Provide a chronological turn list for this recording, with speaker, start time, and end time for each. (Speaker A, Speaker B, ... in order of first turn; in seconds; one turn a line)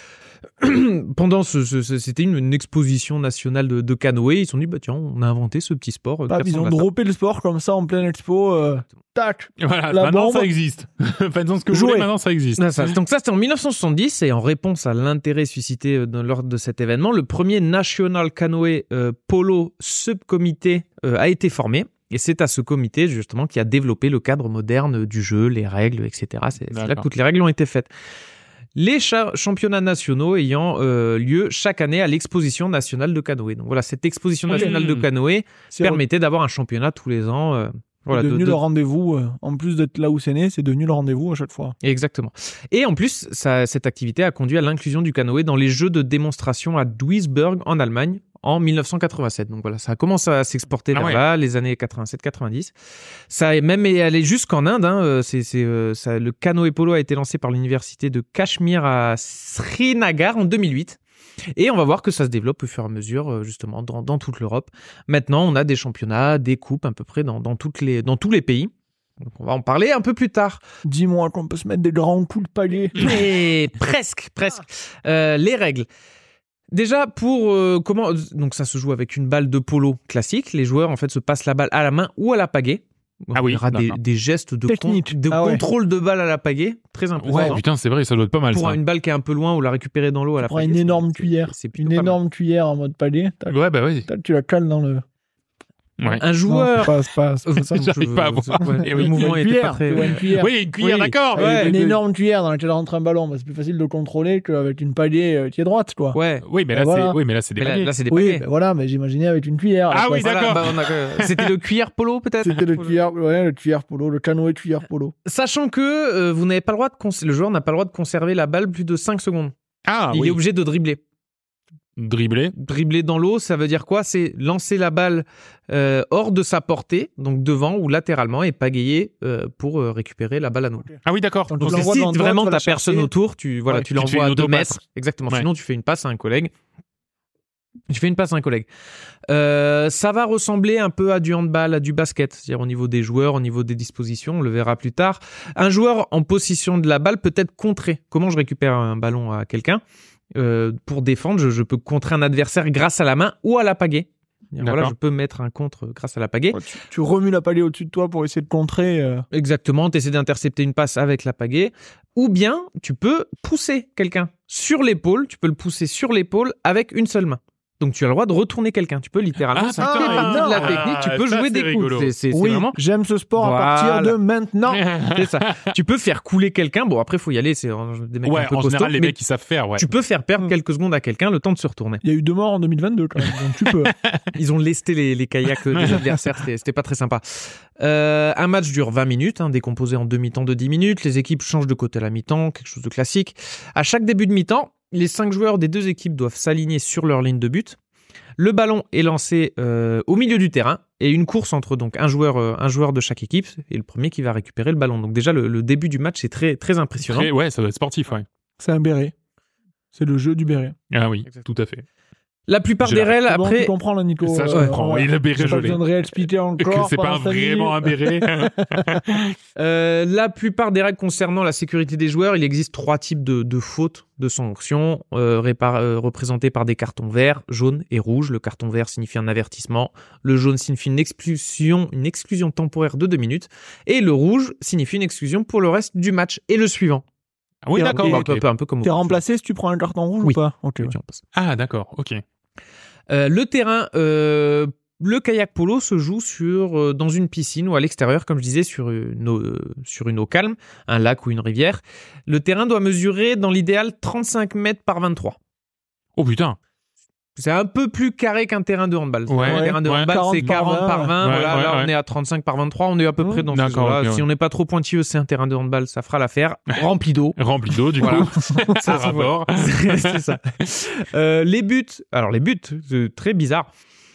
Speaker A: 0.6-6.9
Speaker B: 6.3-10.5
Speaker C: 9.6-12.9
Speaker B: 11.7-12.1
Speaker A: 12.6-27.9
Speaker C: 26.7-27.1
Speaker A: 28.8-38.6
Speaker C: 34.5-35.1
Speaker B: 34.5-34.8
Speaker B: 35.7-36.0
Speaker B: 38.1-41.8
Speaker A: 41.8-52.7
Speaker C: 50.9-51.2
Speaker A: 53.3-61.0
Speaker A: 61.5-70.6
Speaker B: 70.8-73.1
Speaker A: 73.0-75.9
Speaker A: 76.7-87.6
Speaker C: 83.3-84.0
Speaker B: 84.7-85.6
Speaker C: 87.2-88.8
Speaker B: 87.3-87.6
Speaker A: 88.5-92.2
Speaker B: 90.4-95.0
Speaker C: 93.5-94.1
Speaker C: 96.0-96.2
Speaker A: 96.1-100.2
Speaker B: 96.5-97.6
Speaker C: 97.5-99.4
Speaker B: 98.6-100.6
Speaker C: 100.0-102.0
Speaker A: 100.8-101.7
Speaker B: 101.3-106.2
Speaker A: 106.1-106.4
Speaker C: 106.4-107.9
Speaker B: 106.7-107.2
Speaker A: 107.6-108.5
Speaker B: 108.1-110.6
Speaker C: 109.9-111.5
Speaker A: 110.1-112.8
Speaker B: 112.4-115.1
Speaker A: 115.2-119.5
Speaker C: 119.9-120.4
Speaker A: 120.1-121.0
Speaker C: 122.0-122.5
Speaker A: 122.5-130.9
Speaker C: 131.1-131.9
Speaker B: 131.5-133.1
Speaker A: 131.6-136.5
Speaker C: 133.7-134.8
Speaker A: 137.9-138.7
Speaker A: 139.3-149.8
Speaker A: 150.3-156.6
Speaker C: 154.6-154.9
Speaker B: 156.5-159.3
Speaker A: 159.3-172.8
Speaker C: 169.5-172.1
Speaker B: 169.8-170.8
Speaker B: 172.3-174.8
Speaker A: 173.3-174.2
Speaker C: 174.7-175.7
Speaker A: 175.1-179.2
Speaker C: 178.2-179.9
Speaker A: 179.8-182.0
Speaker B: 182.0-183.9
Speaker C: 183.2-184.2
Speaker A: 184.3-187.2
Speaker C: 185.7-186.2
Speaker A: 187.8-197.8
Speaker A: 198.4-207.3
Speaker C: 207.1-208.3
Speaker B: 208.6-209.1
Speaker B: 209.9-210.8
Speaker C: 210.9-211.8
Speaker A: 212.5-213.7
Speaker C: 212.8-213.2
Speaker B: 213.3-219.0
Speaker C: 214.2-215.8
Speaker A: 214.5-214.8
Speaker C: 216.6-219.3
Speaker A: 219.6-237.0
Speaker C: 237.6-238.4
Speaker B: 237.8-238.2
Speaker A: 237.9-239.2
Speaker B: 238.8-240.9
Speaker A: 240.2-241.2
Speaker C: 241.3-242.2
Speaker A: 243.1-255.4
Speaker C: 256.2-256.6
Speaker A: 257.4-267.4
Speaker C: 259.3-260.6
Speaker B: 259.4-261.1
Speaker C: 261.2-261.9
Speaker B: 263.2-263.4
Speaker C: 263.5-264.2
Speaker C: 267.4-270.2
Speaker A: 268.0-273.7